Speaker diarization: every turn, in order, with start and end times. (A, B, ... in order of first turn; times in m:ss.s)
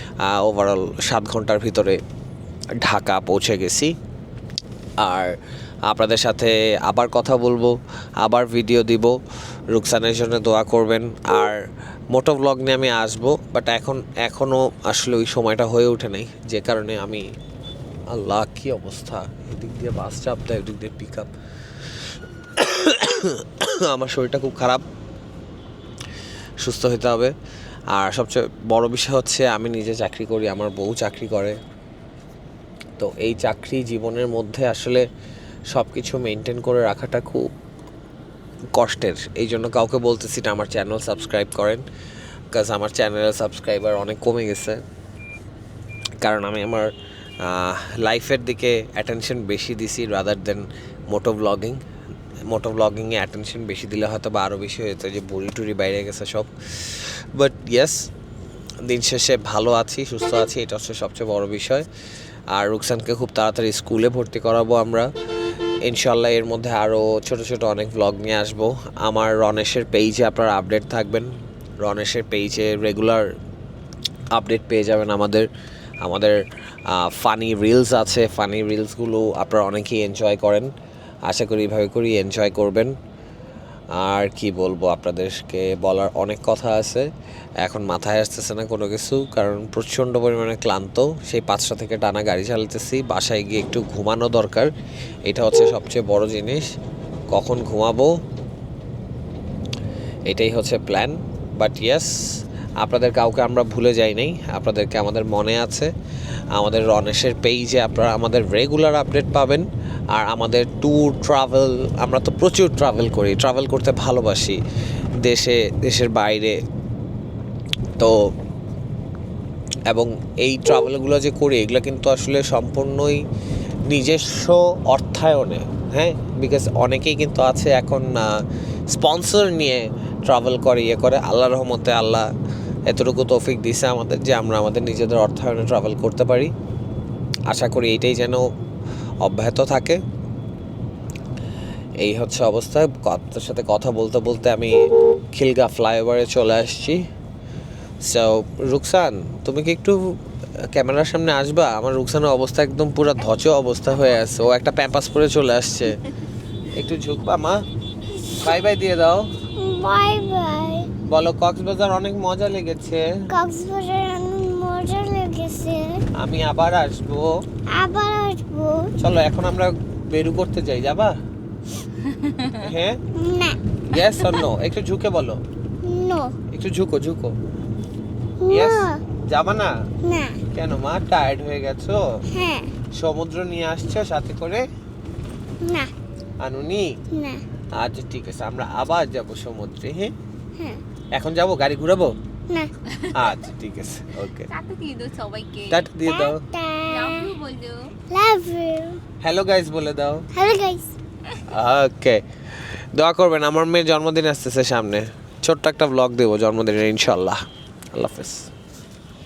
0:00.2-0:02.0 A
0:02.8-0:03.9 A
0:05.0-0:05.3 A
0:05.9-0:09.2 A
0:09.7-0:11.6 A
0:12.1-0:17.2 A
0:18.1-0:21.3 A
0:22.6-0:24.8 A
0:26.6-0:27.3 A
0:27.9-0:31.6 A
0:33.0-0:35.0 A
0:35.7-0:37.5 A
0:38.8-0:41.8 A
0:42.5-0:44.8 A
0:46.2-0:51.8 A
0:52.5-0:58.1 A
0:58.8-1:01.9 A
1:02.5-1:05.1 A
1:05.8-1:11.3 A
1:11.8-1:13.3 A
1:14.4-1:15.5 A
1:16.0-1:16.4 A
1:16.9-1:20.7 A
1:21.3-1:22.9 A
1:24.0-1:27.1 A
1:27.6-1:34.7 A
1:35.3-1:36.7 A
1:37.3-1:38.1 A
1:40.3-1:42.1 A
1:42.8-1:45.9 A
1:46.5-1:54.6 A
1:55.2-1:56.6 A
1:59.9-2:03.2 A
2:03.9-2:12.3 A
2:12.9-2:16.5 A
2:17.5-2:18.4 A
2:19.2-2:20.0 A
2:22.0-2:24.8 A
2:25.4-2:27.0 A
2:28.1-2:30.0 A
2:30.7-2:36.0 A
2:36.7-2:37.6 A
2:38.4-2:39.3 A
2:39.6-2:40.9 B
2:41.1-2:43.0 A
2:43.3-2:46.0 B
2:46.2-2:47.3 A
2:47.8-2:48.9 B
2:49.0-2:51.2 A
2:52.4-2:53.0 A
2:53.2-2:53.6 B
2:53.9-2:55.4 A
2:55.8-2:56.3 B
2:56.5-2:57.3 A
2:58.4-2:59.0 B
2:58.5-2:59.7 A
3:00.0-3:00.4 B
3:00.5-3:02.0 A
3:02.3-3:02.7 B
3:02.9-3:04.6 A
3:05.6-3:05.9 B
3:06.4-3:06.9 A
3:07.1-3:07.4 B
3:07.8-3:10.1 A
3:11.2-3:12.1 A
3:13.1-3:14.5 A
3:14.5-3:15.8 C
3:15.7-3:16.4 A
3:16.0-3:17.4 B
3:16.9-3:17.9 C
3:18.1-3:19.0 B
3:19.2-3:20.3 A
3:20.3-3:20.9 B
3:21.5-3:22.2 A
3:23.0-3:27.4 A
3:27.9-3:28.5 A